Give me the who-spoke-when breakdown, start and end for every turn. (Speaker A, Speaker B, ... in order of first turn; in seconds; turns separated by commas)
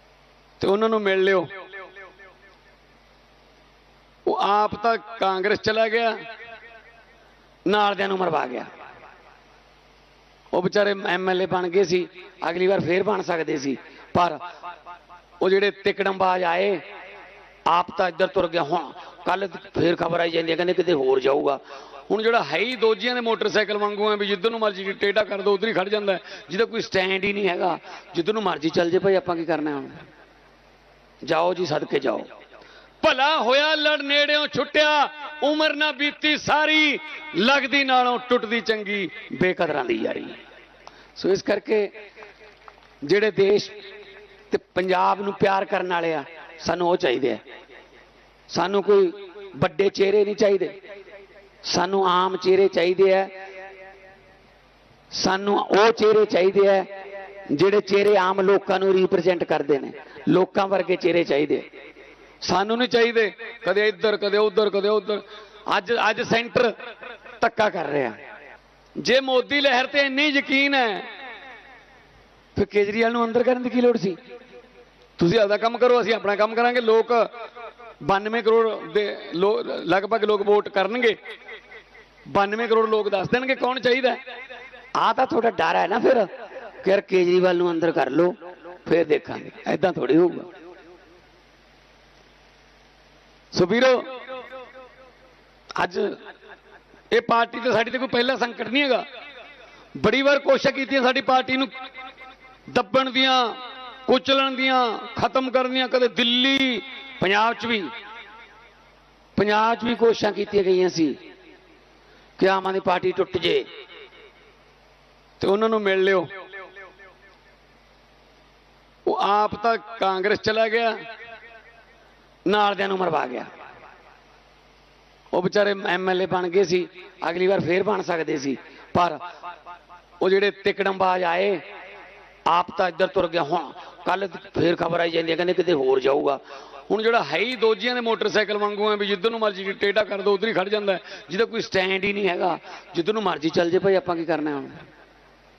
Speaker A: 0.6-1.5, Speaker A: 4.2-6.1, Speaker A: 7.7-8.7, Speaker A: 10.5-14.4, Speaker A: 15.4-16.8, Speaker A: 17.7-30.0, Speaker A: 31.2-32.3, Speaker A: 33.0-40.4, Speaker A: 41.2-41.9, Speaker A: 43.0-43.7, Speaker A: 44.5-47.4, Speaker A: 48.5-50.7, Speaker A: 51.6-53.3, Speaker A: 55.1-56.9, Speaker A: 57.5-61.6, Speaker A: 62.4-66.7, Speaker A: 67.4-68.2, Speaker A: 69.0-71.1, Speaker A: 72.5-74.2, Speaker A: 75.2-77.3, Speaker A: 78.0-81.2, Speaker A: 82.3-84.2, Speaker A: 85.0-86.3, Speaker A: 86.8-90.5, Speaker A: 93.5-94.1, Speaker A: 95.8-96.2, Speaker A: 97.1-99.0, Speaker A: 100.0-101.7, Speaker A: 102.7-107.9, Speaker A: 109.3-111.2, Speaker A: 112.4-113.6, Speaker A: 115.4-116.3, Speaker A: 119.0-120.9, Speaker A: 122.5-123.5, Speaker A: 125.3-129.2, Speaker A: 130.2-131.6, Speaker A: 132.5-144.8